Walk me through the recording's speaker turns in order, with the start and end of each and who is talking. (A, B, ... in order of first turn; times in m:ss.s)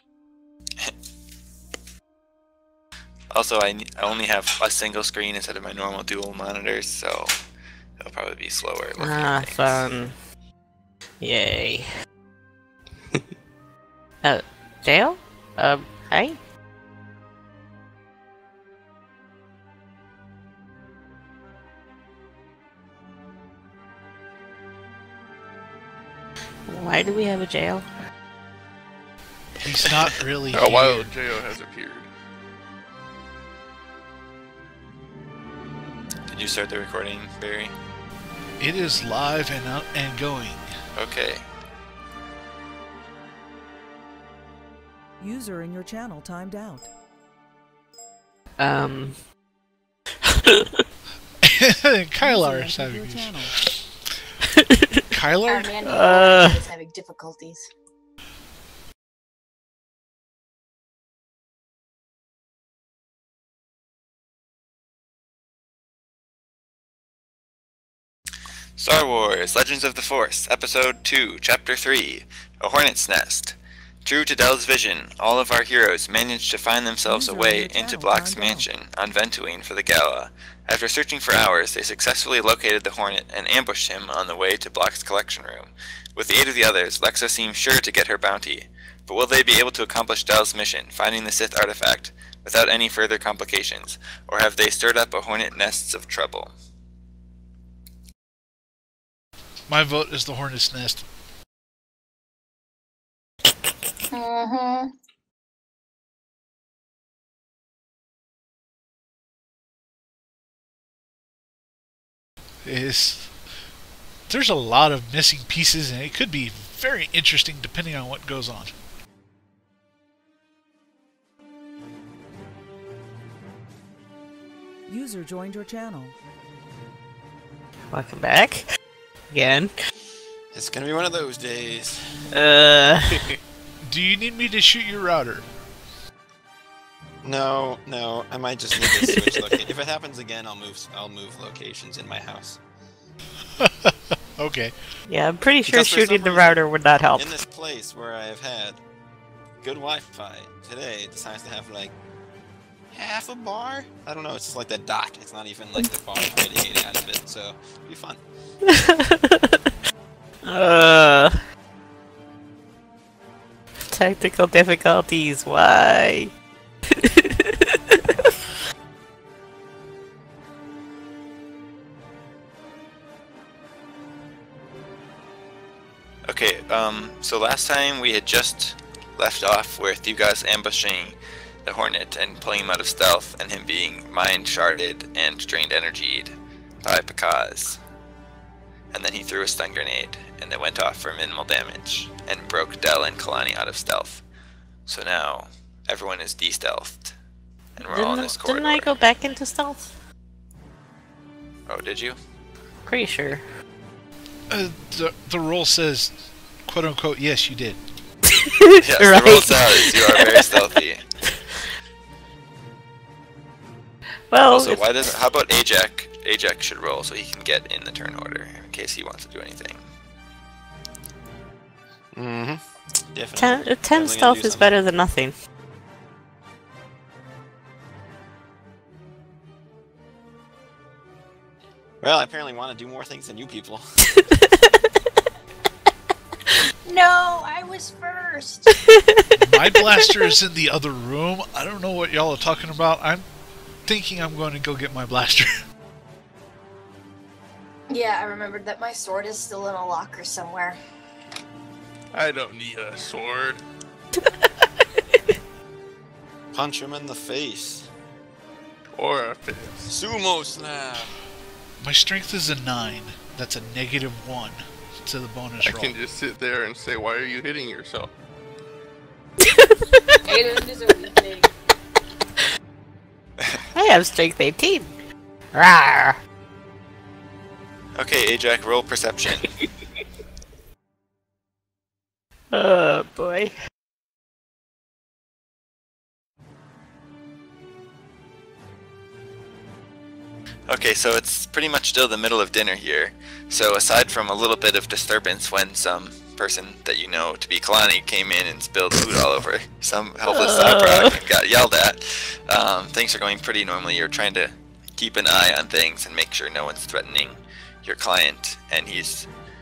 0:03.3-0:07.4 A
0:08.0-0:09.8 A
0:09.0-0:10.1 B
0:11.2-0:11.9 B
0:14.2-0:16.4 B
0:26.7-0:27.8 B
0:29.6-0:31.1 C
0:30.5-0:32.1 D
0:36.3-0:37.7 A
0:38.6-0:40.6 C
0:40.9-0:41.5 A
0:45.2-0:46.9 E
0:48.6-0:49.3 B
0:50.2-0:50.8 B
0:51.4-0:53.8 C
0:52.2-0:53.6 E
0:55.1-0:55.8 C
0:55.5-0:57.7 F
0:55.8-0:56.6 B
1:08.8-1:36.5 A
1:17.0-1:18.7 E
1:39.7-1:41.0 C
1:44.1-1:44.9 F
1:52.6-1:53.4 C
1:54.3-1:58.7 C
2:04.9-2:06.1 E
2:07.9-2:08.6 B
2:09.3-2:09.7 B
2:10.5-2:12.1 G
2:12.3-2:13.2 B
2:13.8-2:15.5 C
2:17.2-2:22.6 G
2:19.1-2:19.4 B
2:23.6-2:24.8 C
2:25.1-2:27.3 B
2:25.6-2:26.6 G
2:27.1-2:28.8 G
2:29.6-2:31.9 G
2:32.9-2:38.2 G
2:38.6-2:39.6 B
2:40.4-2:41.4 B
2:43.9-2:46.3 B
2:47.0-2:48.0 B
2:56.2-3:07.8 A
3:08.9-3:14.2 A
3:14.9-3:17.2 A
3:17.8-3:18.9 A
3:17.8-3:19.9 B
3:21.7-3:22.2 A
3:22.8-3:23.4 B
3:24.5-3:27.8 C
3:28.4-3:30.5 B
3:28.8-3:31.1 A
3:34.3-3:35.0 B
3:34.5-3:39.8 A
3:42.1-3:44.7 G
3:43.4-3:45.3 B
3:52.0-3:53.8 G
3:54.2-3:54.5 B
3:56.8-3:58.7 F
3:58.9-3:59.2 B
3:59.4-4:03.2 C
3:59.7-4:00.1 B
4:03.8-4:05.6 C
4:07.9-4:10.8 F
4:12.1-4:13.6 D
4:16.5-4:17.9 G
4:18.9-4:19.9 D
4:19.9-4:21.1 G
4:21.8-4:25.9 C
4:25.6-4:28.1 D
4:29.4-4:29.8 B
4:30.2-4:31.5 F
4:33.7-4:34.9 B
4:35.5-4:36.2 B
4:37.9-4:39.5 A
4:42.5-4:43.5 B
4:50.7-5:09.3 A
5:00.3-5:01.2 B